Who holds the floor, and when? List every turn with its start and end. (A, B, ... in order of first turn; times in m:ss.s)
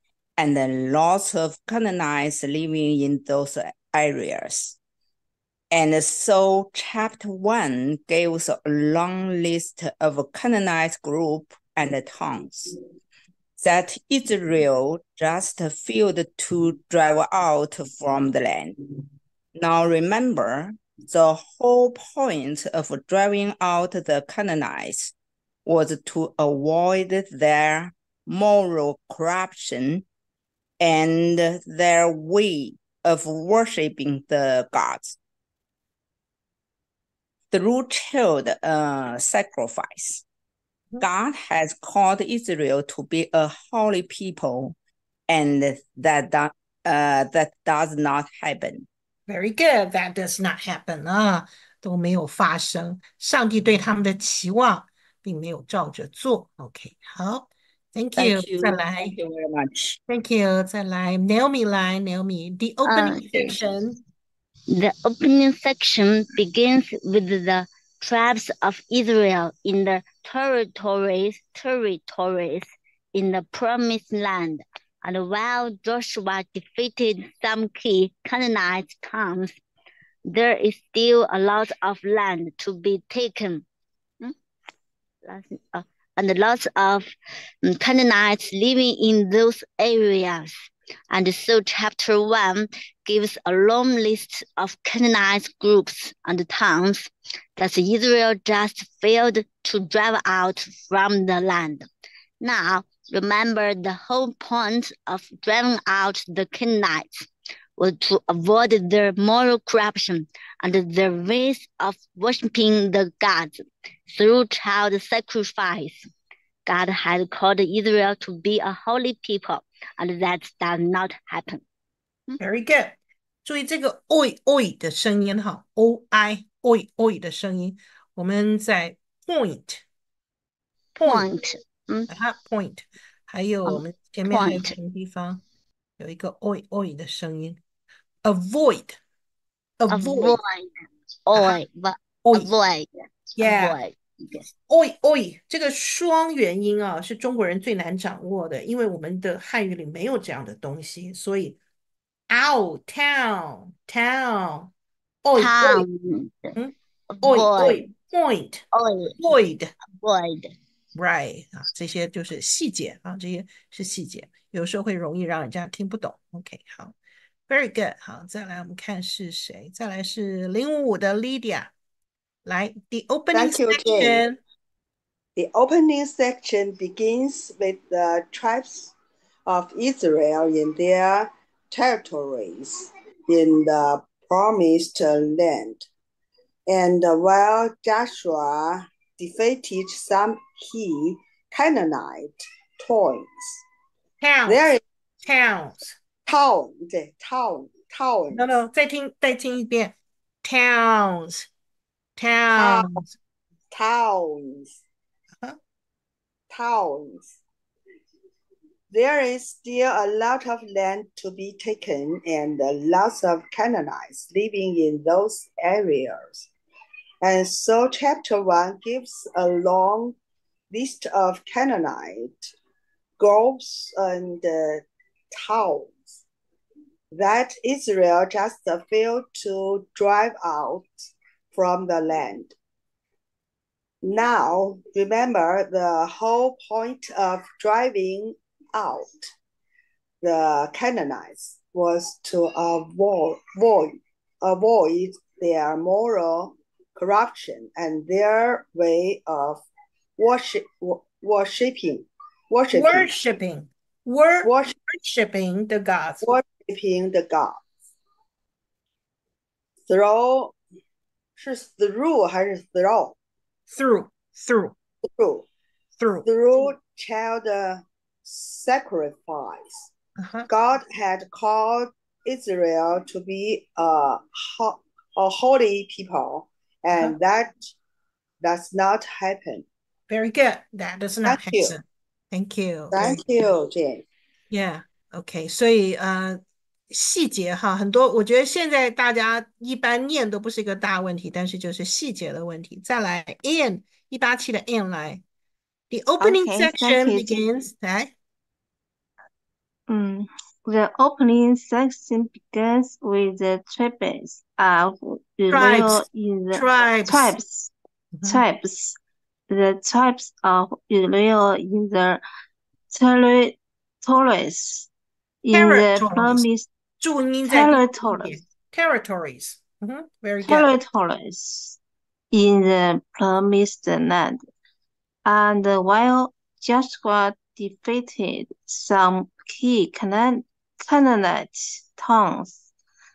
0:00.4-0:04.8 A
0:05.7-0:12.7 A
0:13.6-0:18.9 A
0:19.6-0:25.1 A
0:25.6-0:30.0 A
0:30.8-0:35.2 A
0:37.5-0:40.2 A
0:41.0-0:44.8 A
0:45.3-0:48.9 A
0:49.3-0:59.2 B
0:58.2-1:00.0 A
1:00.1-1:04.0 B
1:02.8-1:03.6 C
1:04.7-1:19.6 C
1:20.3-1:23.6 C
1:25.2-1:27.1 C
1:27.6-1:30.6 C
1:31.1-1:41.9 C
1:42.4-1:56.1 C
1:56.6-2:01.6 C
2:02.4-2:09.8 B
2:11.0-2:11.3 B
2:11.0-2:12.1 C
2:12.1-2:15.4 B
2:13.7-2:14.7 C
2:16.0-2:17.6 B
2:18.2-2:19.0 B
2:19.8-2:20.4 B
2:19.9-2:20.7 C
2:21.2-2:24.4 C
2:22.2-2:22.5 B
2:23.4-2:23.8 B
2:24.7-2:31.6 B
2:32.3-2:34.7 B
2:35.2-2:35.8 B
2:35.4-2:36.6 C
2:36.6-2:38.6 B
2:37.1-2:37.9 C
2:38.7-2:39.2 C
2:39.2-2:39.7 B
2:40.0-2:40.5 C
2:40.9-2:46.9 B
2:47.5-2:51.7 B
2:52.4-2:54.4 B
2:53.4-2:54.2 D
2:55.4-2:58.9 D
2:59.5-3:05.9 D
3:06.7-3:13.6 D
3:14.2-3:14.6 B
3:14.4-3:14.8 D
3:15.2-3:15.9 B
3:16.2-3:18.5 D
3:18.3-3:21.5 B
3:22.2-3:23.1 B
3:22.5-3:23.0 D
3:23.7-3:24.8 D
3:26.5-3:27.4 D
3:28.9-3:36.5 D
3:37.2-3:40.2 D
3:40.7-3:42.5 D
3:43.2-3:46.2 D
3:47.1-3:52.5 D
3:54.0-3:59.3 D
4:00.2-4:09.6 D
4:10.2-4:13.1 D
4:12.7-4:16.4 B
4:14.4-4:14.7 D
4:16.2-4:17.6 D
4:19.9-4:20.6 D
4:21.4-4:23.2 D
4:23.7-4:24.8 B
4:25.0-4:25.4 D
4:26.0-4:26.3 B
4:26.2-4:29.9 D
4:30.2-4:30.5 B
4:30.5-4:37.7 D
4:36.9-4:37.2 B
4:38.4-4:39.6 D
4:40.1-4:43.5 B
4:41.2-4:41.8 D
4:42.9-4:44.0 D
4:44.5-4:55.2 B
4:55.9-4:58.1 B
4:56.2-4:57.4 E
4:59.9-5:07.7 E
5:05.5-5:07.3 B
5:08.1-5:08.4 B
5:08.2-5:09.0 E
5:09.5-5:12.2 E
5:12.9-5:14.9 E
5:15.4-5:16.7 E
5:15.5-5:16.4 B
5:17.0-5:20.8 B
5:17.4-5:18.4 E
5:20.4-5:21.8 E
5:22.3-5:24.4 E
5:25.2-5:32.7 E